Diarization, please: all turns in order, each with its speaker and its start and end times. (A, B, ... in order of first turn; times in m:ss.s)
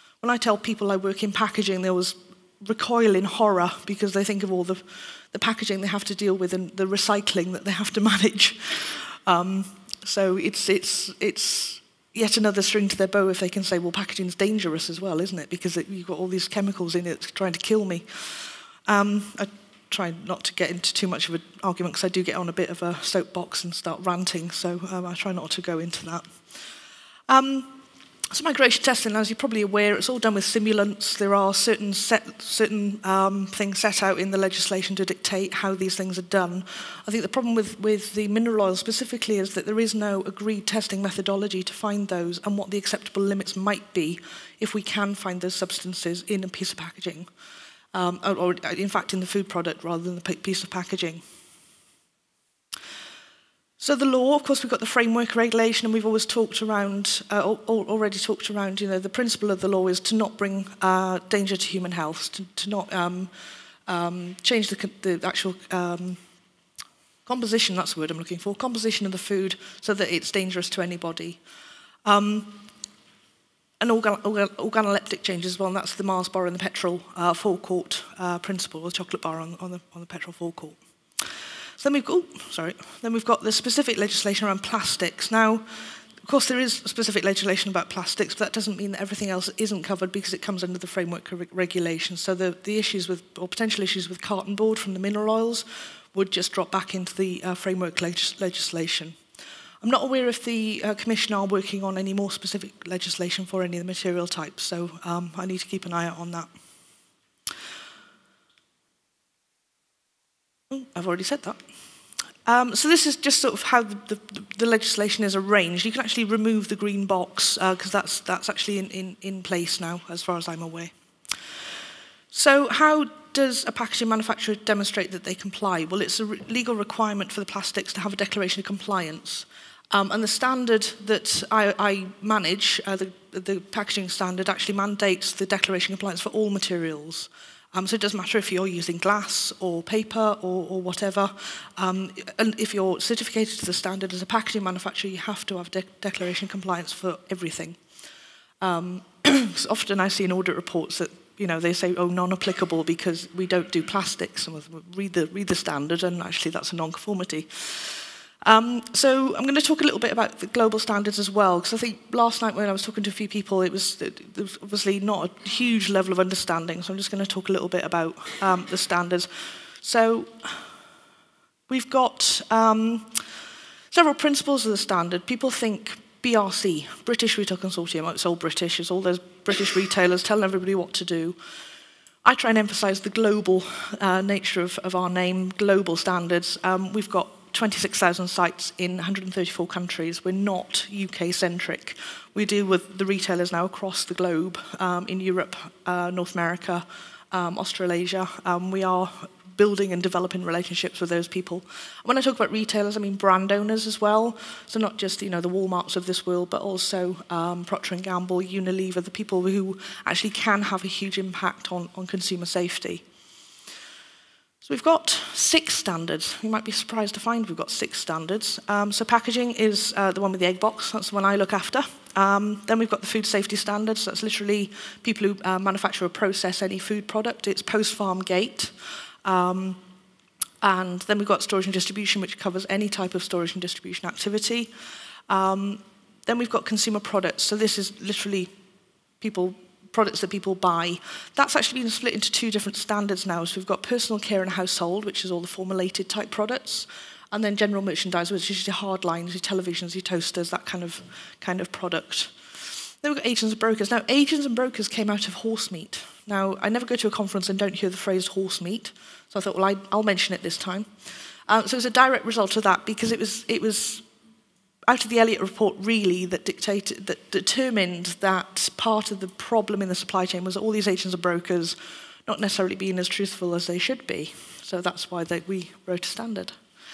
0:00.2-0:26.6 A
0:27.3-0:27.8 A
0:28.3-0:47.3 A
0:47.9-0:51.2 A
0:53.8-1:03.3 A
1:03.9-1:06.2 A
1:07.3-1:11.4 A
1:12.0-1:12.7 A
1:13.8-1:20.8 A
1:21.8-1:25.6 A
1:26.2-1:39.2 A
1:39.8-1:46.5 A
1:50.7-1:51.6 A
1:52.4-2:00.9 A
2:02.3-2:27.8 A
2:28.6-2:49.3 A
2:49.8-2:50.7 A
2:51.7-2:53.2 A
2:53.9-3:01.4 A
3:02.2-3:33.0 A
3:34.6-3:49.8 A
3:50.6-3:54.7 A
3:55.3-3:58.5 A
3:59.2-4:20.9 A
4:21.5-4:24.0 A
4:24.9-4:36.6 A